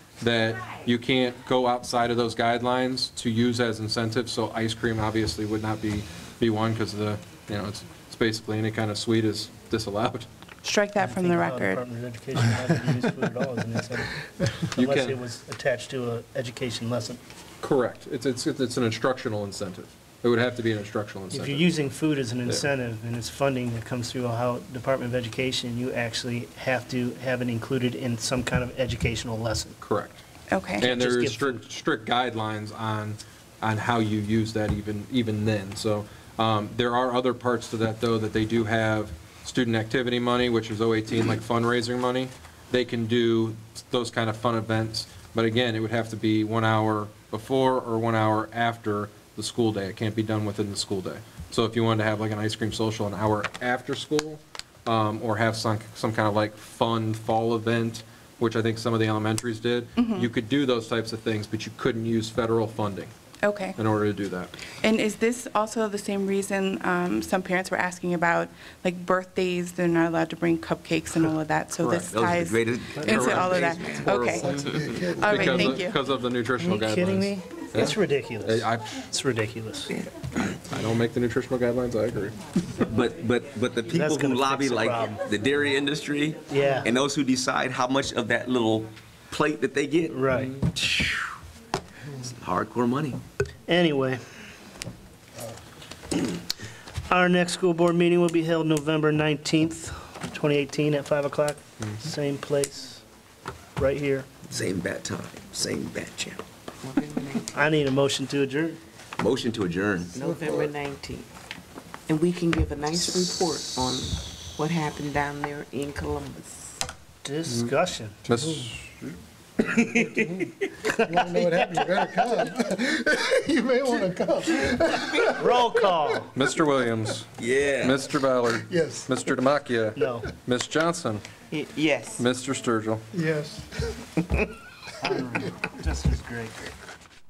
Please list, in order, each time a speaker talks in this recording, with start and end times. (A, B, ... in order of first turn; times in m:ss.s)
0:00.2-0:10.3 A
0:10.6-0:11.8 B
0:11.0-0:17.2 C
0:14.8-0:15.2 A
0:17.6-0:21.7 A
0:21.3-0:29.8 C
0:29.8-0:30.2 A
0:30.5-0:30.9 B
0:30.8-1:03.1 A
0:30.9-0:31.6 C
1:00.0-1:00.3 B
1:03.4-1:03.8 B
1:03.8-1:04.6 A
1:04.8-1:16.0 B
1:11.8-1:12.1 A
1:12.0-1:14.2 D
1:13.0-1:19.0 A
1:14.4-1:15.7 E
1:16.6-1:19.9 C
1:20.7-1:22.4 A
1:22.8-1:31.4 D
1:23.9-1:25.2 C
1:26.5-1:26.9 C
1:30.1-1:30.5 C
1:32.1-1:33.2 D
1:33.7-1:34.2 C
1:37.1-1:43.0 C
1:43.8-1:44.4 C
1:44.4-1:46.4 D
1:46.8-1:47.7 F
1:47.5-1:48.8 C
1:49.2-1:50.8 D
1:50.1-1:51.3 F
1:52.1-1:56.8 F
1:57.2-1:58.6 C
1:57.5-1:57.7 A
1:58.2-1:58.9 A
2:00.1-2:05.6 E
2:00.8-2:01.2 C
2:05.2-2:06.3 C
2:06.3-2:07.3 A
2:07.4-2:08.0 D
2:07.8-2:11.2 A
2:08.6-2:09.1 E
2:10.0-2:10.3 C
2:11.5-2:12.2 F
2:12.2-2:13.0 A
2:13.1-2:13.8 E
2:15.0-2:16.6 C